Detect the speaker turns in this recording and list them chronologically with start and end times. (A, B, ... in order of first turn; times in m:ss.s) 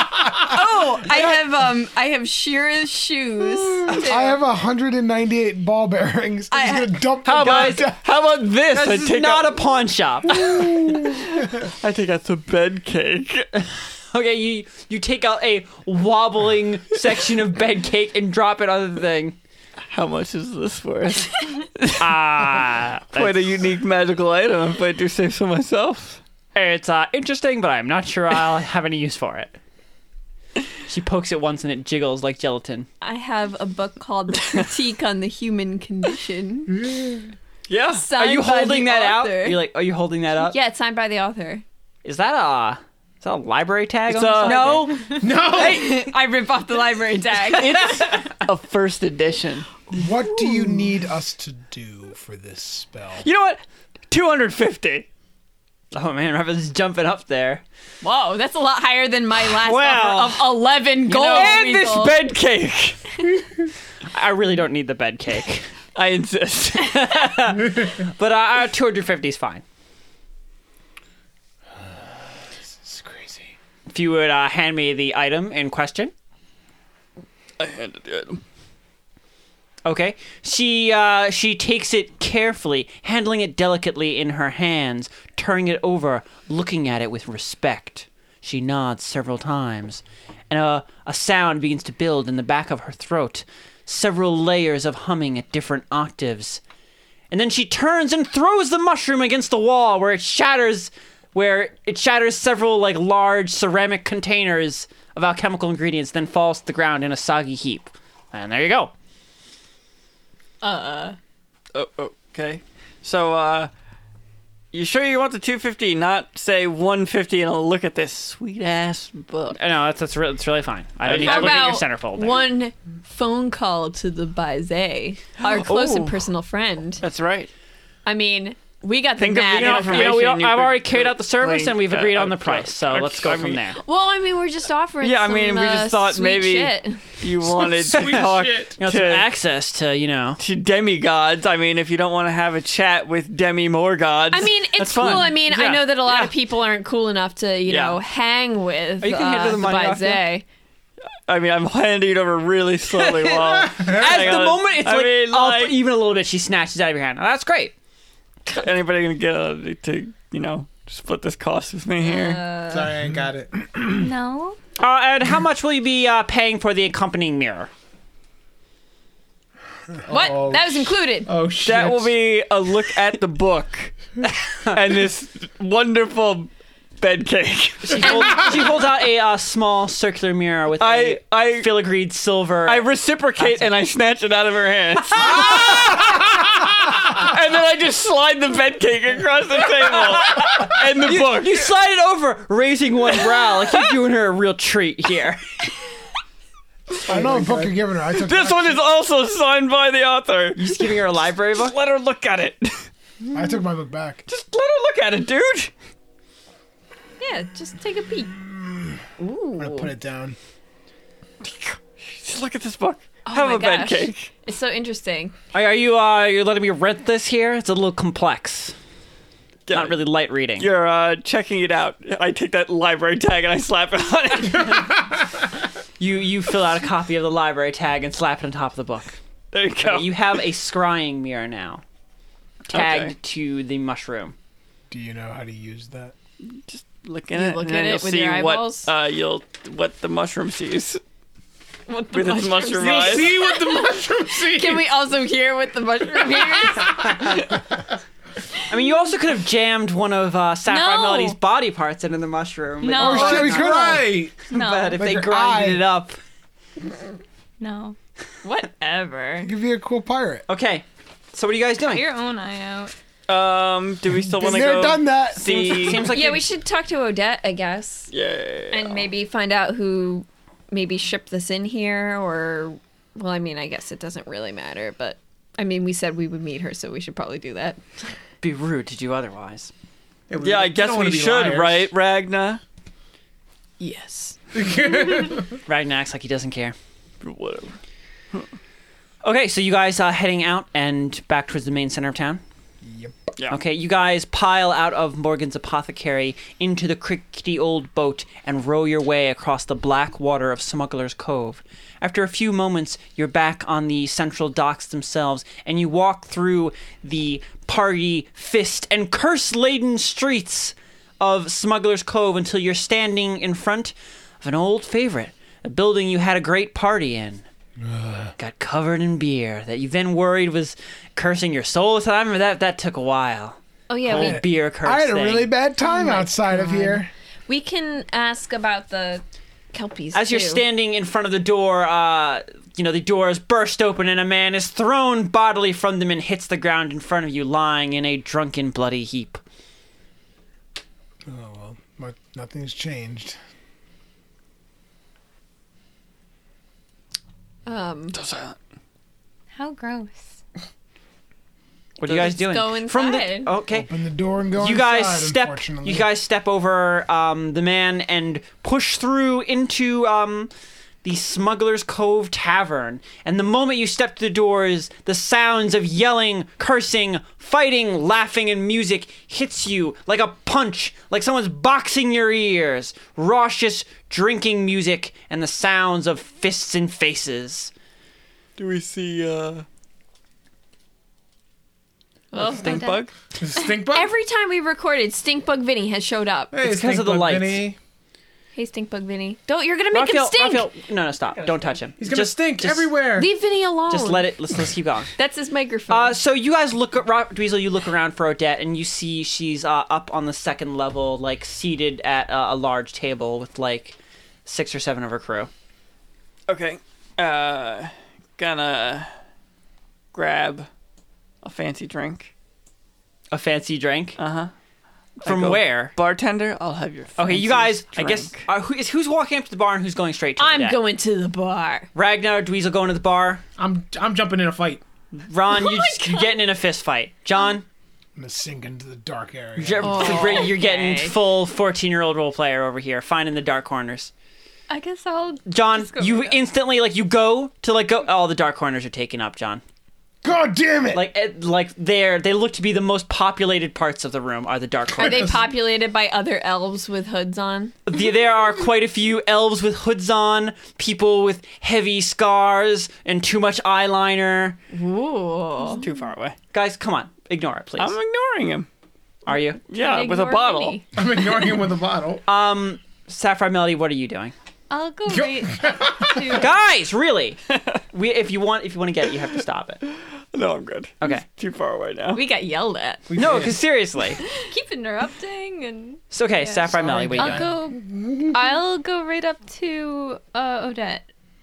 0:00.4-0:04.4 A
0:04.0-0:08.0 B
0:06.5-0:07.0 A
0:07.2-0:07.9 C
0:07.4-0:09.6 D
0:08.7-0:11.0 C
0:10.4-0:13.6 D
0:14.1-0:19.4 C
0:19.9-0:22.6 D
0:22.0-0:23.5 C
0:23.1-0:26.2 D
0:26.5-0:29.6 C
0:30.9-0:32.9 C
0:33.0-0:36.8 A
0:36.8-0:37.2 E
0:37.7-0:38.1 D
0:37.9-0:39.6 A
0:38.1-0:40.5 C
0:40.4-0:41.6 A
0:42.0-0:44.9 C
0:44.1-0:46.1 D
0:44.4-0:48.1 A
0:45.2-0:45.9 E
0:47.5-0:49.8 D
0:49.9-0:50.9 A
0:49.9-0:53.2 B
0:53.2-0:55.0 D
0:55.9-0:57.6 C
0:58.0-1:02.2 A
0:59.6-1:00.6 C
1:01.1-1:03.1 D
1:01.1-1:01.6 C
1:04.1-1:05.7 C
1:05.9-1:07.3 D
1:06.8-1:09.6 C
1:12.8-1:13.5 B
1:13.9-1:16.1 C
1:17.6-1:18.4 D
1:19.8-1:36.6 C
1:37.3-1:48.9 C
1:50.6-1:51.2 A
1:51.7-1:53.7 D
1:54.7-1:59.6 D
1:59.5-2:02.5 C
2:01.0-2:01.8 D
2:01.1-2:07.0 A
2:05.4-2:06.3 D
2:07.0-2:07.5 D
2:08.0-2:10.2 A
2:09.2-2:13.6 D
2:09.5-2:13.8 C
2:13.8-2:17.2 A
2:15.0-2:19.3 D
2:17.5-2:18.8 E
2:17.9-2:20.4 C
2:20.4-2:26.2 D
2:24.3-2:30.4 A
2:24.8-2:26.3 C
2:27.7-2:28.0 D
2:29.0-2:30.2 C
2:31.3-2:35.8 D
2:32.9-2:37.7 C
2:38.5-2:42.4 D
2:42.0-2:42.9 A
2:42.7-2:43.5 E
2:43.9-2:44.6 F
2:44.8-2:47.7 C
2:50.1-2:52.1 E
2:50.1-2:51.3 A
2:51.6-2:54.1 D
2:54.6-2:58.5 D
2:57.8-3:03.7 C
2:58.0-2:58.6 A
3:00.8-3:01.7 D
3:02.6-3:11.7 D
3:05.1-3:06.0 C
3:10.3-3:15.4 C
3:17.0-3:18.8 B
3:17.1-3:17.7 E
3:18.2-3:20.9 D
3:20.6-3:21.7 C
3:21.6-3:22.9 D
3:23.3-3:24.2 B
3:24.3-3:25.7 D
3:27.2-3:28.4 A
3:28.5-3:28.9 B
3:29.2-3:29.9 A
3:29.6-3:30.4 B
3:31.4-3:34.3 D
3:33.2-3:35.3 A
3:35.5-3:38.8 C
3:39.7-3:40.0 D
3:39.7-3:40.7 C
3:40.6-3:44.9 D
3:44.5-3:44.9 C
3:46.0-3:49.2 C
3:49.5-3:50.3 D
3:49.8-3:51.8 C
3:52.7-3:53.1 D
3:52.7-3:54.3 C
3:54.9-3:56.1 B
3:56.4-4:01.0 D
3:57.3-3:58.9 A
4:01.9-4:07.5 A
4:02.1-4:03.4 D
4:02.8-4:04.8 E
4:08.7-4:16.2 C
4:10.7-4:11.4 F
4:12.8-4:13.7 F
4:12.9-4:14.3 B
4:13.3-4:14.3 E
4:14.4-4:15.0 F
4:14.9-4:15.8 B
4:17.6-4:18.0 F
4:18.4-4:19.5 A
4:19.4-4:20.4 B
4:20.5-4:22.0 C
4:21.9-4:22.9 F
4:23.3-4:26.2 D
4:24.2-4:26.0 B
4:25.4-4:26.5 C
4:26.1-4:28.1 A
4:28.1-4:29.1 D
4:28.7-4:37.8 A
4:38.4-4:39.7 C
4:40.3-4:41.9 E
4:40.4-4:42.6 D
4:43.8-4:44.4 A
4:44.5-4:45.5 E
4:45.6-4:46.8 C
4:47.2-4:47.8 D
4:49.2-4:52.4 C
4:52.8-4:53.1 B
4:53.5-5:17.4 C
5:17.9-5:18.3 B
5:18.4-5:25.5 C
5:23.9-5:24.4 A
5:24.1-5:27.1 B
5:25.8-5:30.6 A
5:30.1-5:39.4 C
5:41.2-5:43.4 B
5:47.6-5:48.2 A
5:48.1-5:48.6 D
5:49.5-5:50.4 F
5:52.0-5:53.9 C
5:52.0-5:53.6 A
5:53.6-5:56.1 B
5:54.6-6:00.5 C
6:01.0-6:17.7 C
6:18.6-6:19.6 D
6:22.3-6:23.0 A
6:22.3-6:23.1 D
6:23.4-6:24.1 E
6:23.6-6:26.5 A
6:26.5-6:27.8 E
6:26.6-6:27.7 C
6:28.5-6:30.7 A
6:29.9-6:32.9 C
6:32.0-6:33.3 E
6:33.2-6:34.3 A
6:33.9-6:35.1 C
6:35.2-6:36.2 A
6:35.9-6:45.5 C
6:46.5-6:49.1 D
6:50.1-6:50.7 D
6:51.4-6:52.3 D
6:53.3-6:54.2 C
6:54.2-6:54.5 D
6:55.2-6:58.4 D
6:55.2-6:55.9 C
6:57.2-7:00.8 C
7:00.4-7:01.9 A
7:01.9-7:03.4 C
7:03.6-7:04.8 E
7:05.2-7:07.6 C
7:05.5-7:06.4 A
7:08.2-7:10.5 B
7:09.6-7:14.1 C
7:09.8-7:11.2 A
7:14.7-7:16.4 F
7:15.5-7:19.6 C
7:20.2-7:21.0 B
7:20.9-7:25.4 C
7:25.0-7:27.7 A
7:27.8-7:34.6 C
7:34.7-7:35.8 A
7:35.8-7:36.4 D
7:36.5-7:37.9 C
7:37.8-7:38.7 D
7:39.2-7:39.6 C
7:39.7-7:40.8 D
7:39.7-7:40.8 A
7:40.9-7:42.2 E
7:42.3-7:44.3 C
7:44.7-7:46.6 F
7:45.1-7:46.4 E
7:46.3-7:47.4 C
7:47.5-7:47.8 D
7:47.9-7:49.8 C
7:49.9-7:52.2 D
7:52.1-7:53.1 A
7:53.1-7:53.6 E
7:53.2-7:54.2 C
7:54.5-8:01.1 F
7:56.1-7:57.5 C
7:56.7-7:58.1 E